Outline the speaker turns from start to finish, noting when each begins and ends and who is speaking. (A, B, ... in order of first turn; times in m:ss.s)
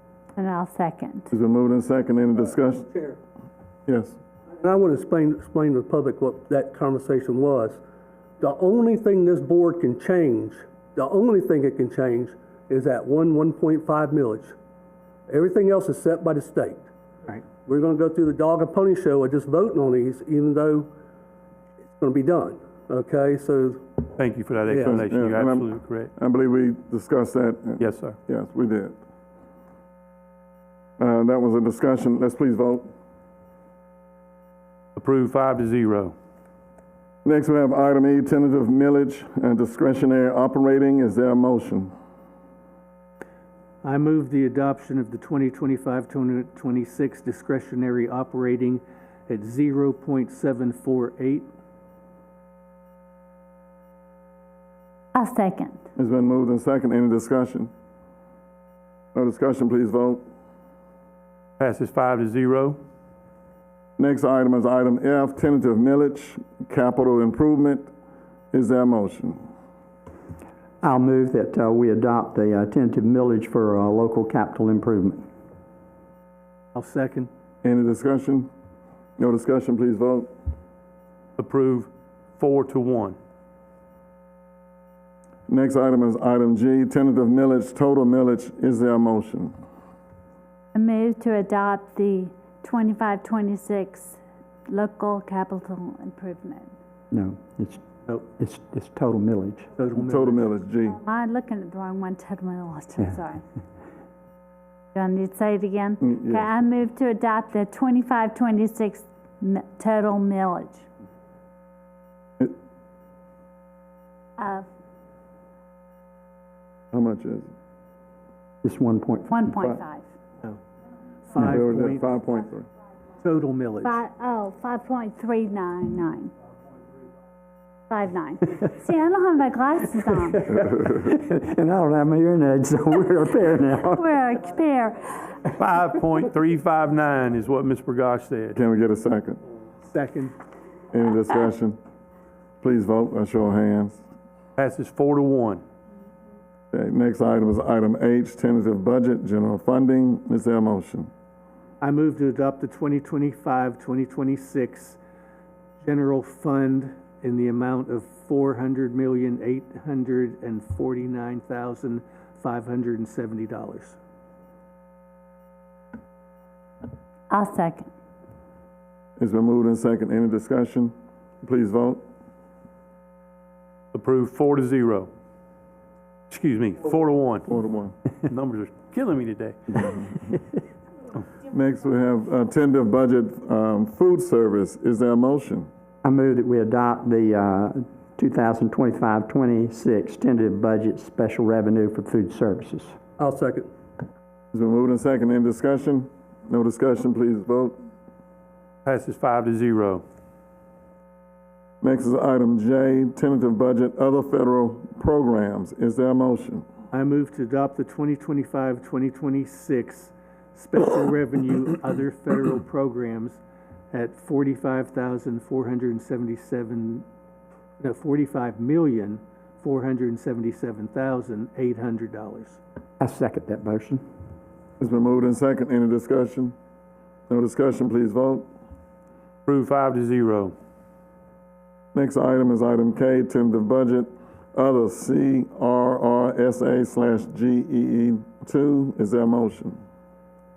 0:00.4-0:01.3 A
0:01.3-0:02.9 B
0:03.9-0:04.2 B
0:04.6-0:07.8 C
0:08.4-0:14.6 C
0:15.3-0:16.9 C
0:17.6-0:20.9 C
0:21.9-0:23.8 C
0:24.2-0:26.1 D
0:24.7-0:25.0 C
0:24.9-0:29.0 B
0:27.8-0:28.2 D
0:31.0-0:32.9 B
0:35.0-0:36.2 D
0:37.2-0:41.9 B
0:43.8-0:51.5 E
0:55.2-0:55.8 A
0:56.0-0:57.7 B
0:59.1-1:00.2 B
1:01.6-1:02.8 D
1:04.0-1:07.9 B
1:08.5-1:09.4 B
1:10.8-1:15.2 F
1:16.7-1:17.3 E
1:17.6-1:18.5 B
1:19.2-1:20.3 B
1:21.4-1:23.2 D
1:25.5-1:29.6 B
1:30.7-1:36.7 A
1:37.1-1:39.7 F
1:39.8-1:40.5 E
1:40.0-1:41.0 B
1:40.9-1:43.4 A
1:45.0-1:50.9 A
1:46.0-1:46.5 B
1:54.4-1:54.7 A
1:56.9-1:57.5 B
1:58.6-1:59.5 F
1:59.3-2:00.1 A
2:01.3-2:02.0 E
2:01.4-2:02.7 B
2:03.2-2:04.0 E
2:03.8-2:06.3 A
2:07.9-2:10.5 A
2:10.7-2:14.1 F
2:14.0-2:15.5 A
2:15.5-2:18.6 D
2:18.5-2:19.4 B
2:19.9-2:20.3 E
2:20.9-2:21.8 B
2:22.6-2:24.0 B
2:24.6-2:25.6 D
2:26.7-2:31.1 B
2:31.8-2:35.0 E
2:35.8-2:44.0 E
2:47.3-2:47.9 A
2:49.2-2:52.0 B
2:53.9-2:55.1 D
2:56.3-2:57.5 D
2:57.5-2:58.0 B
2:58.2-3:00.4 D
3:01.5-3:05.7 B
3:06.0-3:13.0 F
3:13.2-3:13.7 C
3:14.5-3:17.8 B
3:18.8-3:20.0 D
3:21.8-3:26.7 B
3:26.9-3:33.4 E
3:33.9-3:37.0 E
3:37.8-3:42.6 E
3:43.0-3:44.0 F
3:44.8-3:46.6 B
3:47.3-3:48.5 B
3:49.5-3:50.6 D
3:51.9-3:59.8 B